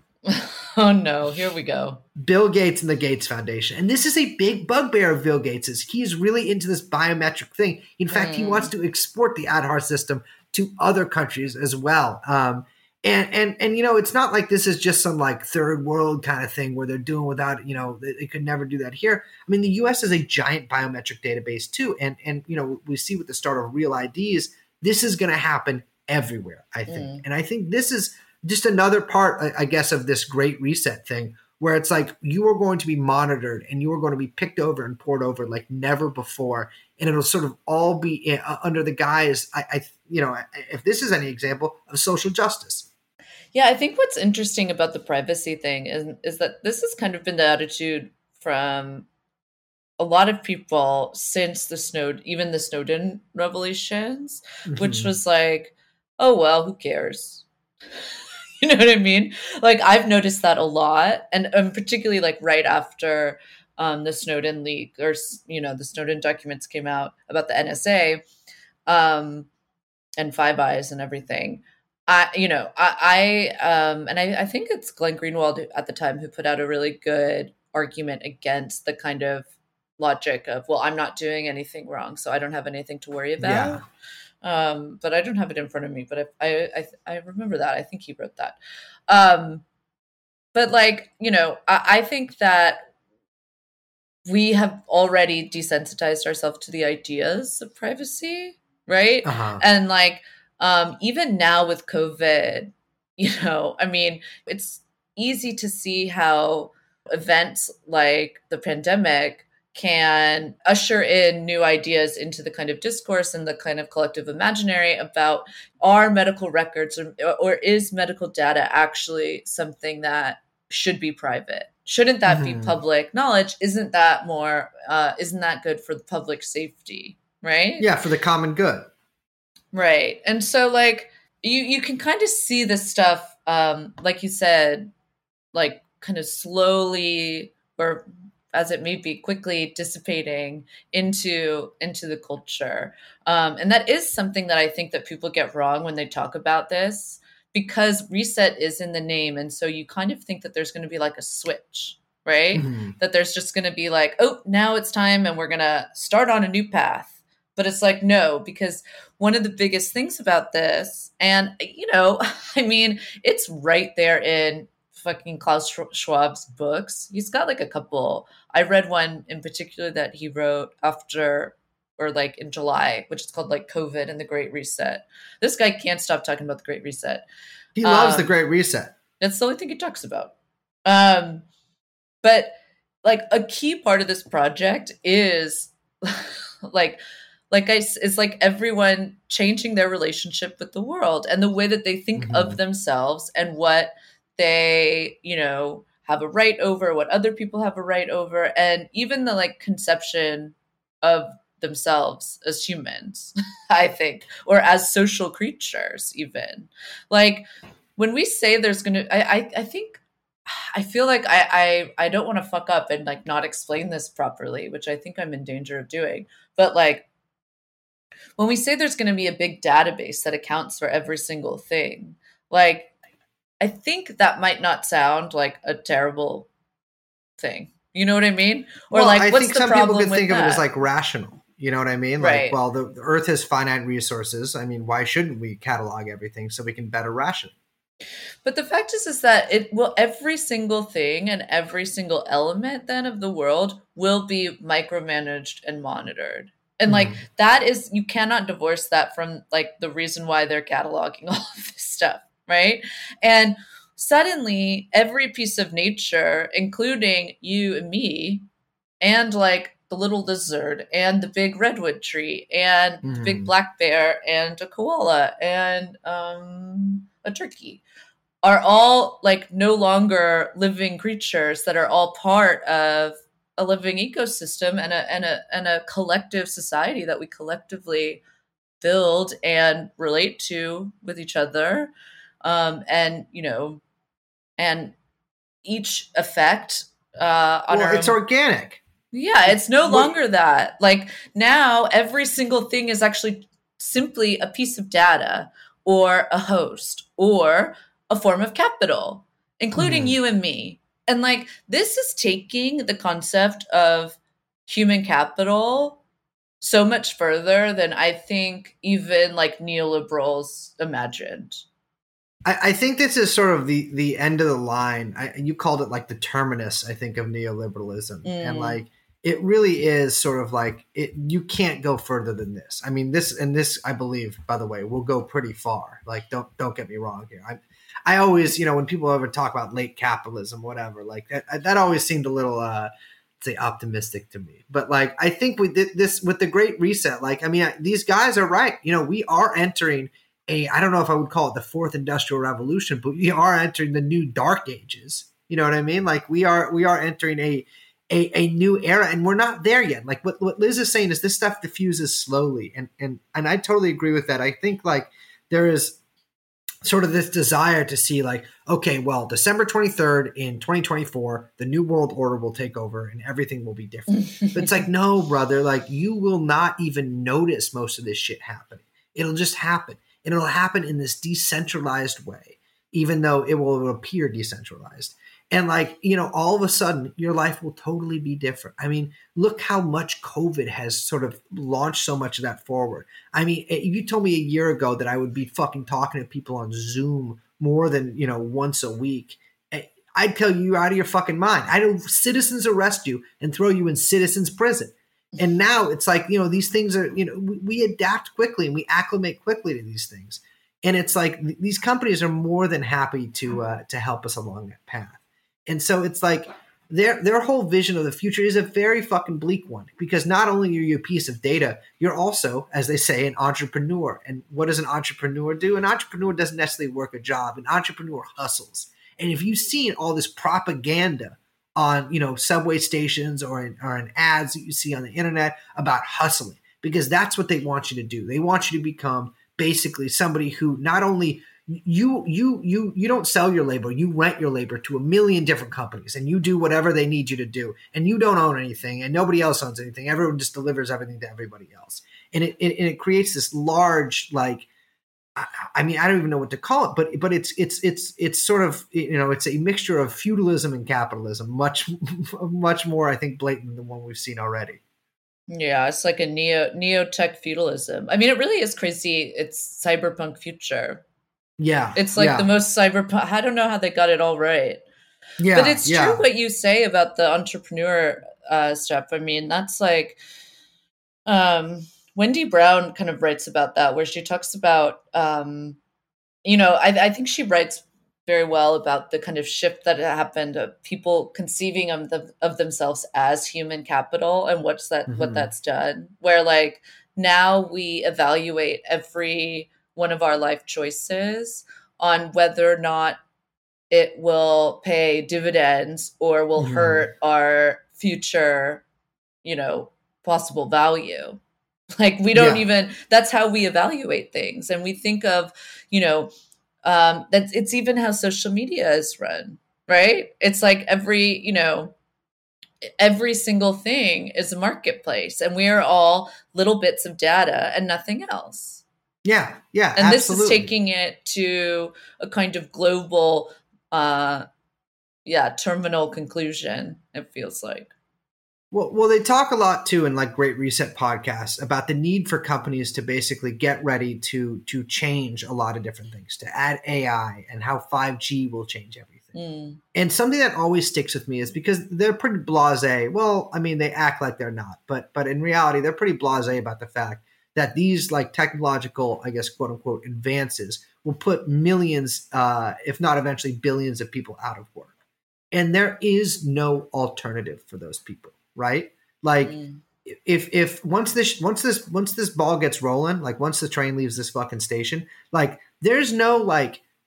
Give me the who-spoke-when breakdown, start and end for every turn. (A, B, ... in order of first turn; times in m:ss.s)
0:00.2-0:02.0 A
0:02.2-0:42.9 B
0:08.1-0:08.7 A
0:26.9-0:27.2 A
0:43.5-0:49.1 A
0:50.0-0:57.4 A
0:54.7-0:55.1 B
0:58.6-1:08.2 A
1:08.9-1:09.5 A
1:10.2-1:19.5 A
1:20.0-1:23.8 A
1:23.4-1:23.8 B
1:24.4-1:28.6 A
1:29.1-1:29.6 A
1:30.5-1:32.8 A
1:34.3-2:07.9 A
1:39.2-1:39.6 B
2:02.3-2:02.8 B
2:07.8-2:08.9 B
2:09.7-2:14.9 A
2:15.5-2:57.2 A
2:32.5-2:32.9 B
2:57.8-2:58.9 B
2:57.8-2:58.3 A
2:59.2-3:00.3 A
3:00.8-3:01.4 A
3:02.2-3:27.4 A
3:12.2-3:12.6 B
3:28.0-3:37.0 A
3:38.4-3:42.9 A
3:43.6-3:46.5 A
3:47.4-3:50.6 A
3:48.9-3:57.5 B
3:52.2-3:52.6 A
3:58.4-4:18.4 A
4:06.9-4:07.2 B
4:19.0-4:27.8 A
4:23.0-4:23.5 B
4:28.4-4:38.2 A
4:38.8-4:41.9 A
4:42.4-4:43.8 A
4:44.6-4:44.9 A
4:45.6-4:48.2 A
4:47.7-4:48.8 B
4:49.1-5:06.0 A
4:49.5-4:50.1 B
4:59.8-5:00.2 B
5:06.6-5:11.6 A
5:12.4-5:56.0 B
5:18.2-5:18.8 A
5:56.8-7:24.7 B
6:04.2-6:04.7 A
7:25.4-7:34.8 B
7:35.5-7:41.0 A
7:41.6-7:42.5 B
7:42.0-7:44.8 A
7:45.4-7:46.2 B
7:45.6-7:50.2 A
7:51.3-7:55.8 A
7:56.4-8:13.2 A
8:05.1-8:05.5 B
8:13.9-8:18.8 A
8:16.6-8:17.0 B
8:19.4-8:21.4 A
8:22.0-8:26.3 A
8:22.3-8:22.6 B
8:26.8-8:31.9 A
8:32.8-8:38.8 A
8:39.2-8:40.7 B
8:40.0-8:44.5 A
8:45.3-8:47.9 A
8:48.7-8:59.3 B
8:59.4-8:59.8 A
8:59.9-9:14.9 B
9:15.5-9:26.8 B
9:19.4-9:19.8 A